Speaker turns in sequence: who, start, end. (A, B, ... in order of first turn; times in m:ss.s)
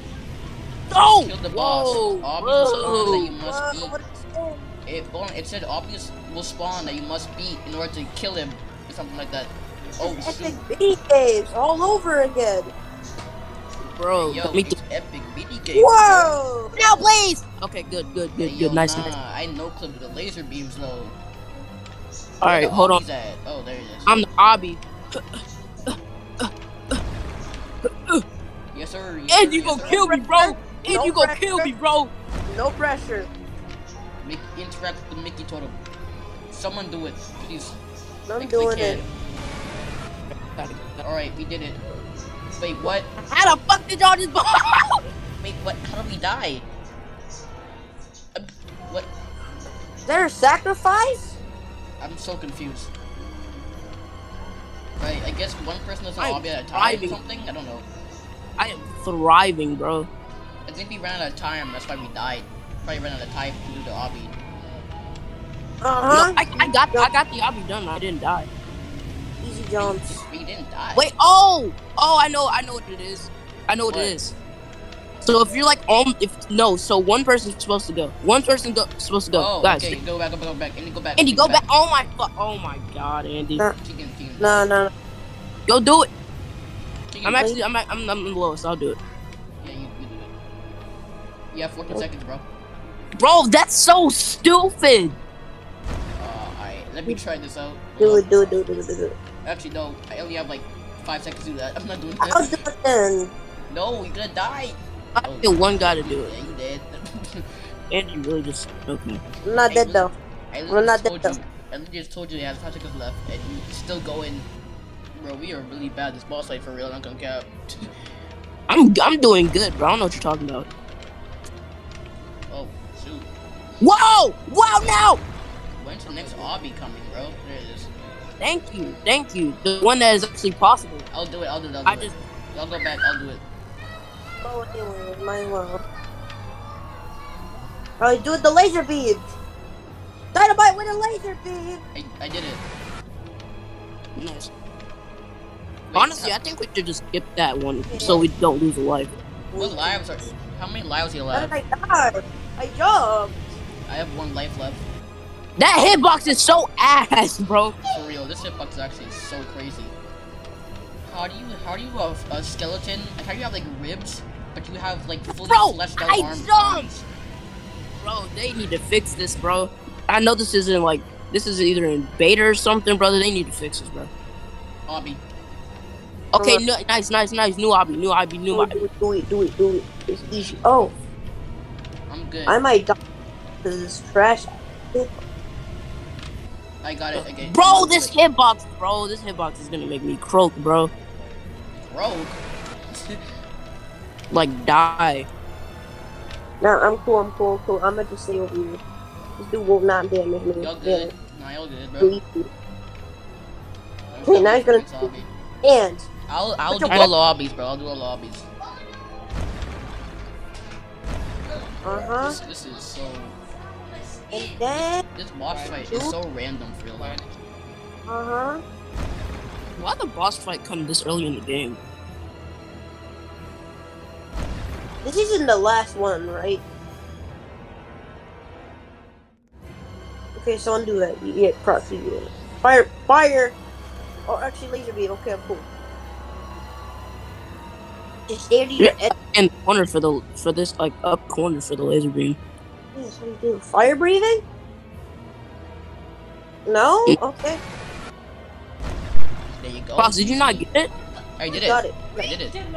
0:00.9-0:03.3 A
0:01.2-0:04.0 B
0:02.9-0:04.6 C
0:04.8-0:10.6 B
0:10.0-0:12.7 C
0:13.8-0:14.8 A
0:14.2-0:16.4 B
0:15.7-0:16.8 C
0:16.8-0:19.1 A
0:18.4-0:21.2 B
0:22.4-0:23.0 A
0:22.4-0:24.2 B
0:24.1-0:27.0 A
0:27.8-0:28.2 A
0:28.7-0:30.1 B
0:29.3-0:32.1 A
0:29.8-0:31.7 C
0:32.5-0:33.3 C
0:34.2-0:35.8 B
0:36.5-0:37.8 B
0:38.3-0:39.0 C
0:38.4-0:39.1 B
0:40.6-0:41.0 A
0:41.0-0:41.8 B
0:42.6-0:43.1 B
0:43.3-0:45.0 A
0:45.4-0:46.7 B
0:48.3-0:49.1 B
0:50.0-0:51.4 C
0:52.0-0:52.9 B
0:55.0-0:57.9 B
0:56.2-0:57.2 A
0:58.6-1:00.1 A
1:00.6-1:04.4 B
1:05.8-1:07.1 C
1:06.1-1:08.5 A
1:09.4-1:10.2 C
1:09.8-1:11.1 B
1:10.9-1:14.3 A
1:13.8-1:14.2 B
1:15.2-1:20.0 A
1:19.3-1:21.6 B
1:21.2-1:23.6 A
1:23.8-1:24.7 B
1:24.4-1:24.9 C
1:25.7-1:26.1 A
1:27.1-1:27.5 B
1:27.2-1:29.0 A
1:29.6-1:30.3 B
1:31.5-1:32.4 B
1:33.2-1:35.2 A
1:36.2-1:38.6 B
1:38.0-1:39.2 C
1:39.4-1:42.6 B
1:42.2-1:43.3 C
1:43.7-1:47.5 B
1:45.2-1:46.3 A
1:47.9-1:49.2 A
1:49.4-1:50.1 C
1:49.6-1:54.5 B
1:50.7-1:51.4 C
1:55.1-1:57.9 B
1:58.7-2:00.7 A
2:02.5-2:03.3 B
2:03.8-2:05.2 A
2:05.8-2:07.9 B
2:06.1-2:06.5 C
2:08.4-2:11.0 A
2:11.1-2:13.4 B
2:11.8-2:12.1 A
2:14.4-2:15.8 C
2:18.0-2:19.3 C
2:20.3-2:21.8 C
2:21.9-2:22.6 B
2:24.2-2:24.5 A
2:25.9-2:26.4 B
2:25.9-2:29.1 A
2:27.9-2:28.3 C
2:29.5-2:30.3 C
2:29.6-2:31.5 B
2:31.3-2:33.4 C
2:33.9-2:34.9 B
2:35.6-2:37.8 A
2:37.9-2:39.9 B
2:41.0-2:47.0 B
2:45.4-2:46.9 A
2:48.0-2:54.1 A
2:54.9-2:55.2 B
2:56.3-2:58.8 A
2:56.4-2:56.6 C
2:58.5-3:00.9 C
3:02.1-3:02.6 B
3:02.5-3:03.0 C
3:03.6-3:05.1 C
3:06.8-3:08.2 B
3:07.2-3:10.9 A
3:11.9-3:12.4 B
3:12.9-3:13.2 B
3:14.3-3:15.3 A
3:16.6-3:18.8 C
3:19.4-3:21.1 C
3:20.6-3:22.2 B
3:22.0-3:22.5 C
3:24.1-3:25.3 B
3:24.3-3:25.1 C
3:25.6-3:26.1 C
3:26.3-3:28.5 B
3:26.7-3:27.1 C
3:31.8-3:32.4 C
3:32.1-3:33.4 B
3:34.3-3:35.0 C
3:34.8-3:37.2 B
3:35.5-3:35.8 A
3:35.7-3:36.1 C
3:38.1-3:38.6 C
3:39.8-3:41.8 A
3:45.0-3:46.6 C
3:50.4-3:53.6 C
3:54.2-3:55.6 C
3:58.3-3:59.1 C
3:58.8-4:02.4 A
4:02.9-4:04.4 C
4:06.6-4:07.6 C
4:09.6-4:10.7 B
4:10.0-4:10.9 A
4:11.4-4:12.6 B
4:11.5-4:12.3 C